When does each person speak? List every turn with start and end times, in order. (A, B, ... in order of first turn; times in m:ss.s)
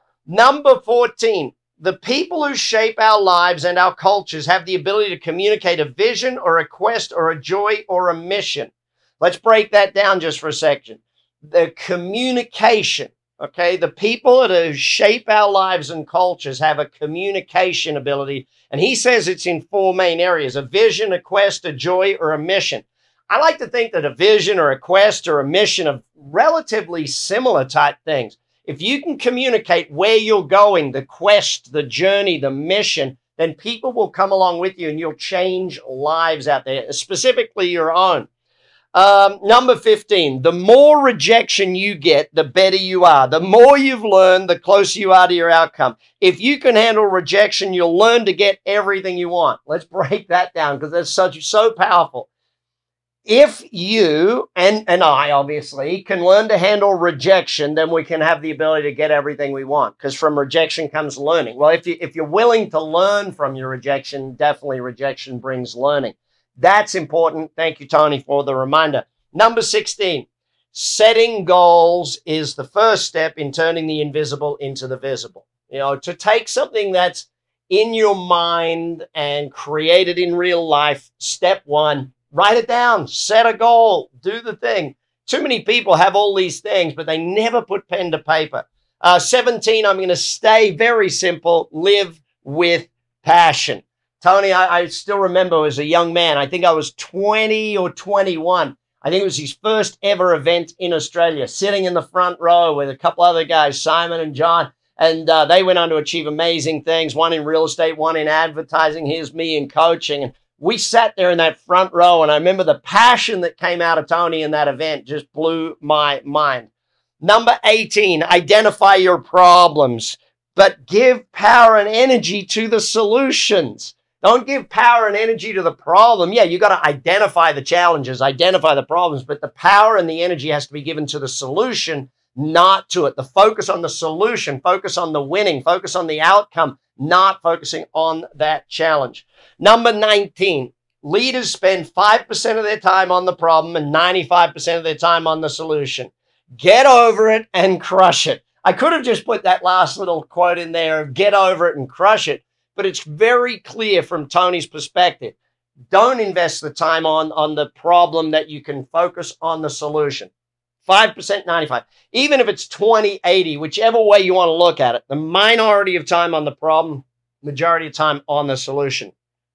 0:00.3-0:38.3 A
0:38.9-0:52.3 A
0:53.2-1:56.7 A
1:57.2-2:35.4 A
2:35.9-2:40.3 A
2:40.8-2:49.1 A